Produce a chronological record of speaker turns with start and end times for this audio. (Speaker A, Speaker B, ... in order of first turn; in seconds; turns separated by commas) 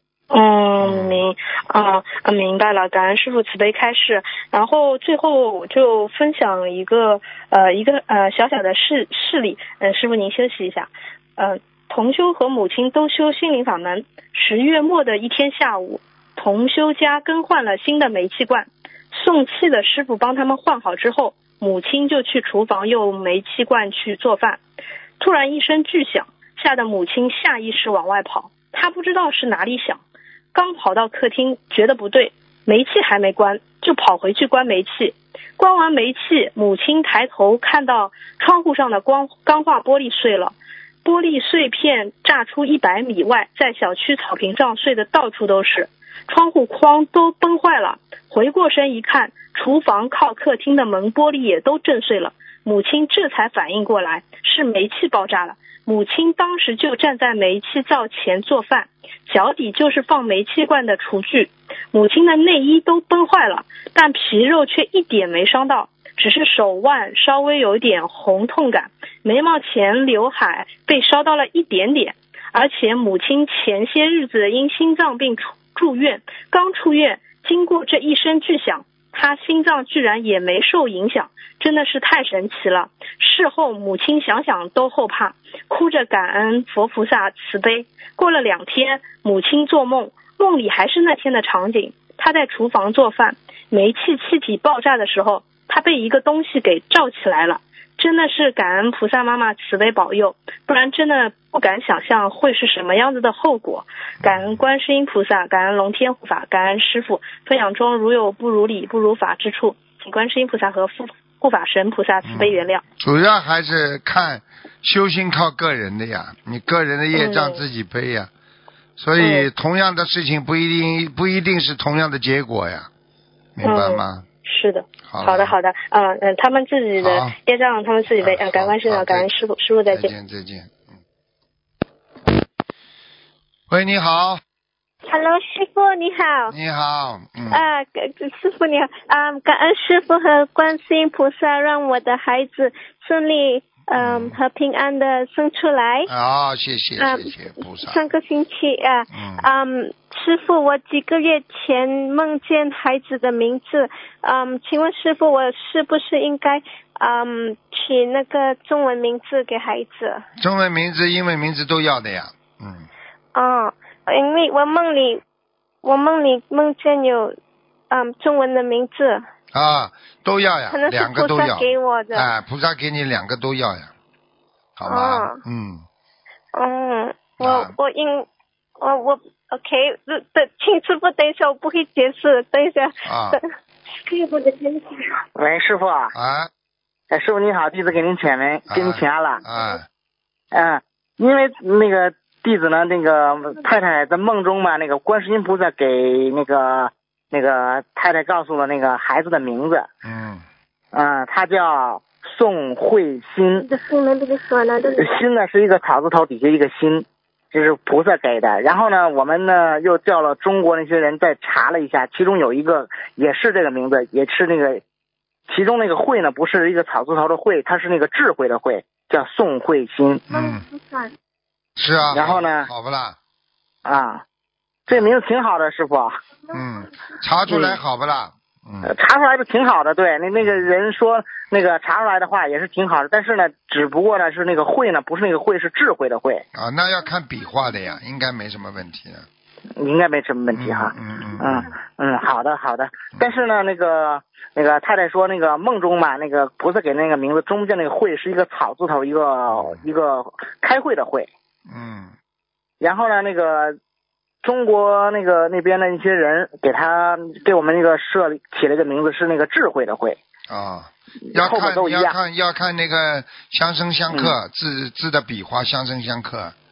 Speaker A: 0.3-24.6, Speaker B: 0.8-1.2, Speaker A: 25.2-30.0, Speaker A: 30.5-112.8, Speaker B: 104.2-104.6, Speaker B: 112.2-118.3, Speaker A: 117.1-117.6, Speaker B: 119.0-122.9, Speaker A: 119.2-119.5, Speaker B: 123.6-124.2, Speaker A: 123.6-130.1, Speaker B: 125.1-125.5, Speaker B: 127.0-127.3, Speaker B: 128.2-129.3, Speaker B: 129.9-130.9, Speaker B: 133.7-134.4, Speaker C: 135.1-136.6, Speaker B: 136.5-137.7, Speaker C: 137.5-146.1, Speaker B: 144.0-144.4, Speaker B: 146.1-148.0, Speaker C: 147.0-160.2, Speaker B: 149.1-149.4, Speaker B: 160.4-162.9, Speaker C: 163.3-165.2, Speaker C: 165.8-167.4, Speaker C: 167.9-169.2, Speaker B: 169.5-173.9, Speaker C: 170.7-172.3, Speaker B: 174.8-175.8, Speaker C: 174.9-175.4, Speaker C: 176.6-178.2, Speaker B: 177.4-177.7, Speaker C: 178.8-183.5, Speaker B: 183.1-183.4, Speaker C: 184.0-185.2, Speaker D: 185.4-186.1, Speaker B: 186.1-186.5, Speaker D: 187.1-189.4, Speaker B: 188.7-189.9, Speaker D: 190.5-199.9, Speaker B: 200.1-200.4, Speaker D: 200.9-203.7, Speaker C: 203.6-205.2, Speaker D: 205.0-214.8, Speaker D: 215.5-220.2, Speaker B: 220.3-220.6, Speaker C: 220.3-221.1, Speaker B: 221.8-223.2, Speaker D: 222.1-222.7, Speaker D: 223.8-224.2, Speaker D: 224.9-226.2, Speaker B: 226.5-228.9, Speaker D: 227.5-227.8, Speaker D: 228.8-236.4, Speaker B: 230.4-230.7, Speaker B: 236.5-239.3, Speaker D: 239.8-251.3, Speaker B: 240.5-241.7, Speaker B: 249.5-249.8, Speaker B: 251.7-252.1, Speaker D: 252.8-253.8, Speaker D: 254.4-260.2, Speaker B: 260.5-266.6, Speaker D: 261.3-262.2, Speaker D: 264.1-264.3